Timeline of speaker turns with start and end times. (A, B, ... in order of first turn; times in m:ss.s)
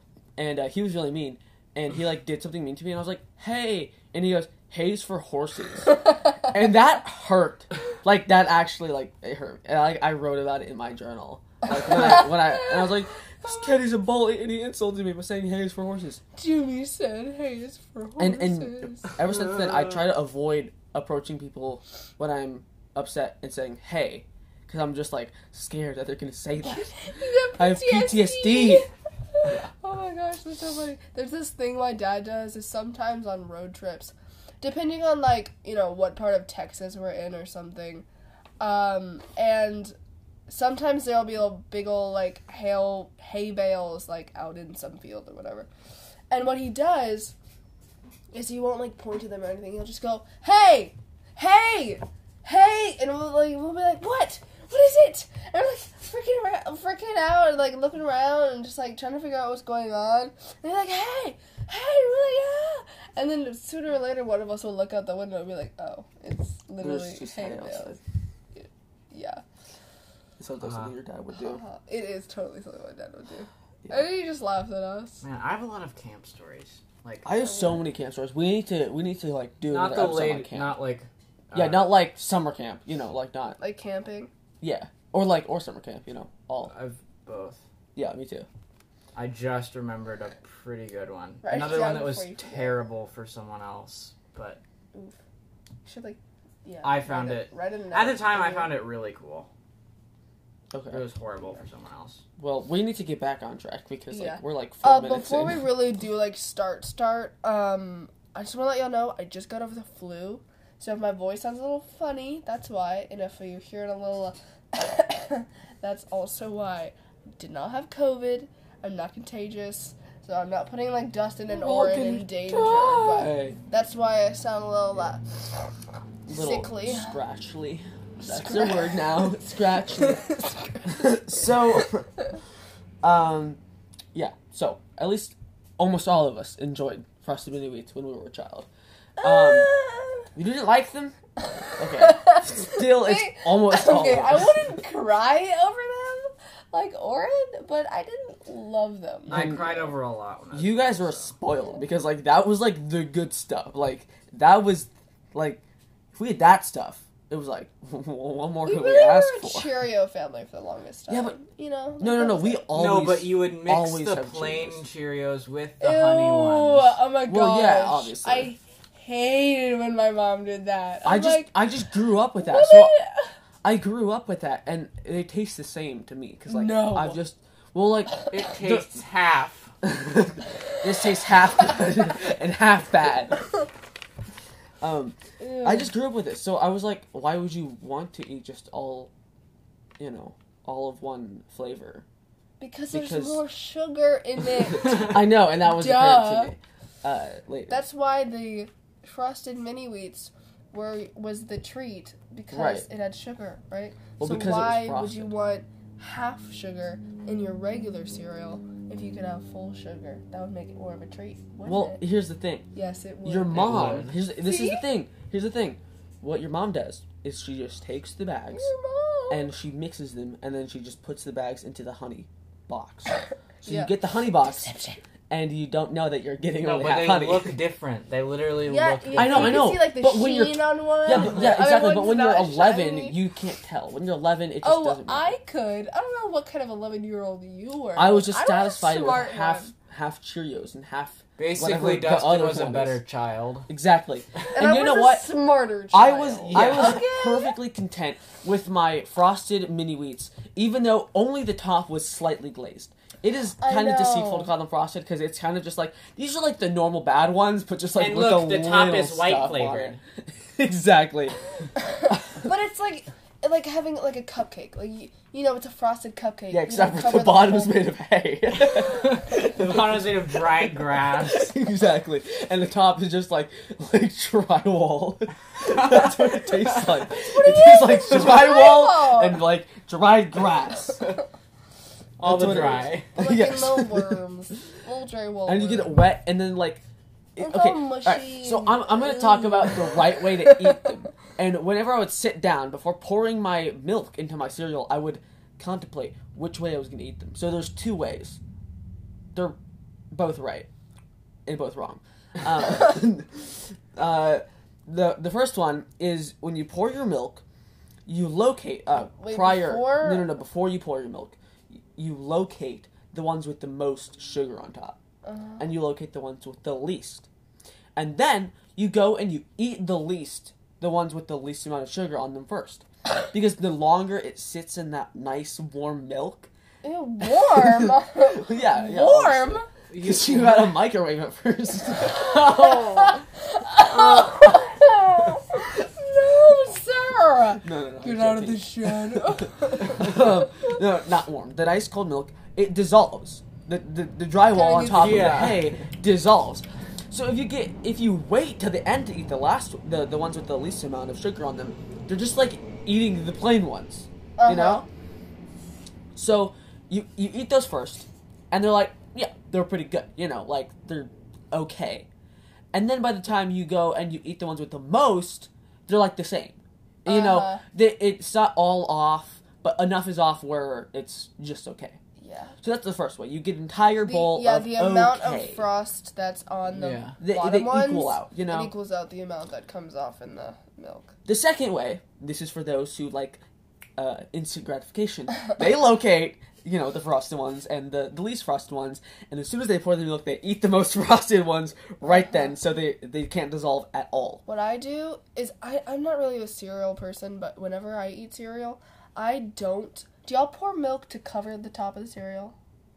0:00.4-0:16.2 A
0:11.7-0:12.9 B
0:16.4-0:19.1 B
0:18.2-0:26.9 A
0:19.6-0:19.9 C
0:26.6-0:38.1 B
0:27.6-0:28.9 A
0:38.6-0:40.0 B
0:40.5-0:45.7 B
0:46.3-0:47.3 B
0:48.3-1:08.0 B
1:06.8-1:08.0 A
1:08.5-1:09.4 B
1:10.4-1:11.6 A
1:10.6-1:10.9 C
1:11.4-1:15.2 B
1:15.2-1:17.3 C
1:17.2-1:20.8 A
1:17.4-1:17.8 B
1:19.7-1:21.9 C
1:21.5-1:23.6 A
1:23.6-1:24.3 B
1:24.6-1:26.7 A
1:26.6-1:27.6 C
1:28.0-1:28.5 A
1:29.2-1:34.6 C
1:31.4-1:32.8 B
1:35.9-1:38.8 B
1:36.8-1:39.5 C
1:40.7-1:41.0 A
1:40.9-1:42.2 C
1:42.4-1:45.7 A
1:44.1-2:05.3 B
2:01.5-2:03.6 A
2:06.3-2:10.2 A
2:06.3-2:07.2 B
2:08.2-2:11.5 B
2:10.9-2:12.1 A
2:13.0-2:13.6 A
2:14.1-2:18.7 A
2:19.2-2:19.7 A
2:19.2-2:20.3 B
2:20.4-2:21.2 A
2:21.8-2:24.7 A
2:21.8-2:29.9 B
2:29.3-2:31.3 C
2:29.3-2:29.7 A
2:30.5-2:35.6 A
2:36.1-2:39.7 A
2:38.6-2:42.7 B
2:41.1-2:41.4 A
2:42.0-2:44.8 A
2:42.7-2:47.0 C
2:45.8-2:51.5 B
2:47.3-2:48.5 A
2:51.0-2:52.9 A
2:52.4-2:53.4 B
2:53.6-2:59.0 A
2:56.5-2:57.2 B
2:58.3-2:59.7 C
2:59.8-3:03.4 A
3:04.8-3:09.1 A
3:05.4-3:05.9 B
3:10.0-3:12.0 A
3:12.6-3:16.5 B
3:12.9-3:13.4 A
3:14.8-3:17.8 A
3:17.7-3:32.0 B
3:22.5-3:22.9 A
3:24.2-3:25.3 A
3:31.7-3:32.7 A
3:32.7-3:34.8 B
3:33.2-3:38.7 A
3:33.5-3:34.2 C
3:38.5-3:39.5 B
3:39.3-3:44.8 A
3:43.6-3:45.0 B
3:45.3-3:47.6 A
3:46.6-3:49.7 C
3:48.6-3:53.2 B
3:49.1-3:55.3 A
3:51.1-3:51.6 C
3:54.6-3:59.7 B
3:58.0-4:03.0 A
4:01.4-4:03.7 C
4:03.7-4:05.3 A
4:04.5-4:07.6 B
4:05.9-4:21.4 A
4:06.4-4:07.1 C
4:13.6-4:14.5 B
4:18.0-4:20.0 C
4:22.0-4:27.8 B
4:26.5-4:41.1 A
4:28.6-4:31.6 C
4:37.1-4:39.5 B
4:42.2-4:43.1 C
4:42.2-4:44.2 A
4:43.1-4:46.0 B
4:45.5-4:46.8 A
4:47.4-4:58.4 A
4:47.4-4:50.9 B
5:00.1-5:00.7 A
5:01.5-5:07.4 A
5:08.1-5:15.0 A
5:09.2-5:10.3 B
5:15.2-5:15.6 B
5:15.6-5:17.3 A
5:18.0-5:26.5 A
5:26.8-5:29.7 B
5:27.3-5:33.2 A
5:29.9-5:30.8 C
5:32.3-5:40.4 B
5:33.8-5:34.7 A
5:37.6-5:54.9 A
5:44.5-5:45.4 B
5:44.9-5:45.8 C
5:54.4-5:54.9 B
5:56.2-6:02.1 A
6:02.7-6:12.0 A
6:07.1-6:07.6 B
6:12.2-6:12.6 B
6:12.6-6:15.6 A
6:14.0-6:21.1 B
6:16.8-6:17.2 C
6:17.2-6:18.7 A
6:21.2-6:23.4 A
6:24.0-6:34.4 A
6:34.5-6:42.6 B